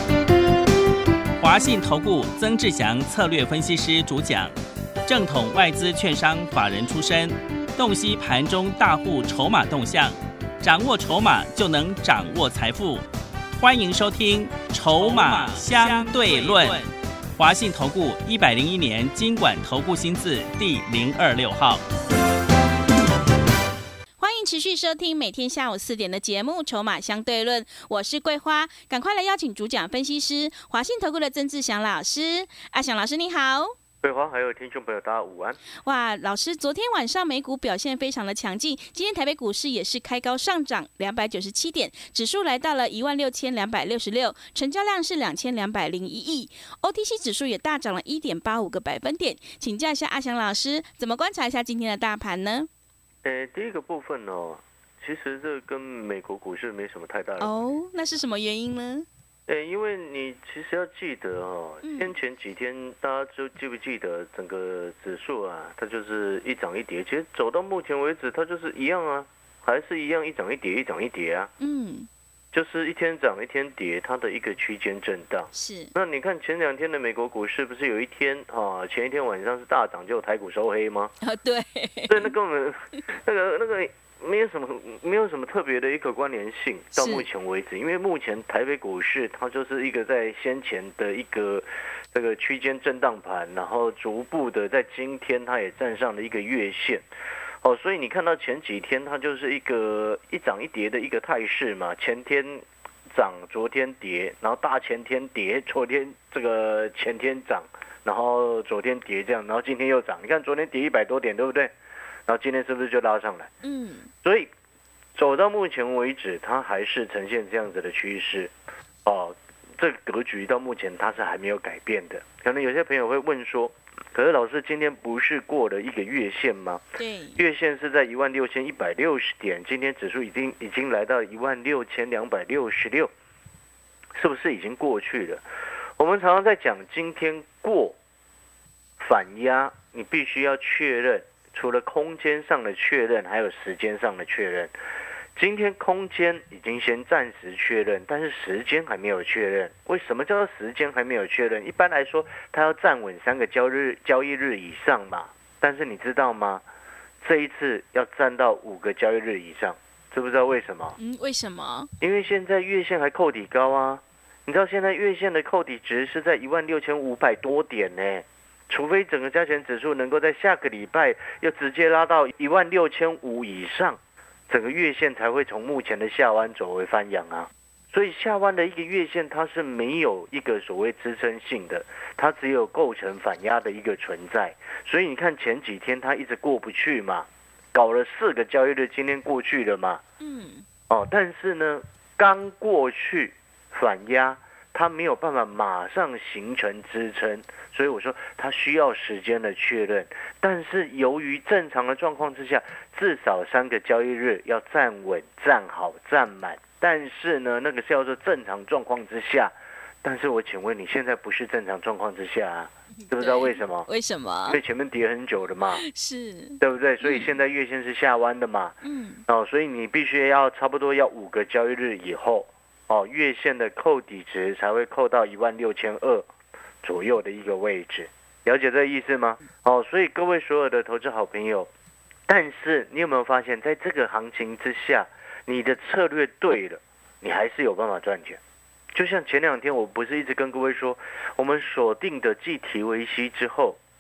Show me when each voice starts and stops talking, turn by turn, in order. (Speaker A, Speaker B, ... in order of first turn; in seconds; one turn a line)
Speaker A: 1.4-4.5
Speaker A: 5.1-13.0
Speaker A: 13.6-21.8
Speaker B: 16.2-16.7
Speaker B: 24.2-33.7
Speaker C: 34.0-35.6
Speaker B: 35.8-52.7
Speaker C: 53.2-58.2
Speaker B: 57.4-59.1
Speaker C: 59.5-71.5
Speaker B: 61.8-62.1
Speaker B: 71.6-72.1
Speaker C: 72.5-81.1
Speaker B: 75.5-75.9
Speaker B: 81.2-82.3
Speaker C: 82.1-97.0
Speaker B: 86.9-87.3
Speaker C: 97.6-111.7
Speaker C: 112.3-113.5
Speaker B: 113.6-114.1
Speaker C: 114.2-114.5
Speaker C: 115.2-118.5
Speaker C: 119.0-126.8
Speaker B: 127.0-127.4
Speaker C: 127.4-133.1
Speaker C: 134.2-135.4
Speaker C: 136.0-138.0
Speaker C: 139.0-144.7
Speaker C: 145.4-156.6
Speaker C: 157.2-161.0
Speaker B: 161.0-161.9
Speaker C: 162.0-190.0
Speaker B: 190.2-190.7
Speaker C: 190.9-213.9
Speaker B: 213.0-214.6
Speaker C: 214.5-215.8
Speaker B: 215.7-217.3
Speaker C: 216.6-218.8
Speaker B: 218.8-219.2
Speaker C: 219.3-226.3
Speaker C: 226.8-231.7
Speaker C: 232.3-238.4
Speaker C: 238.9-243.8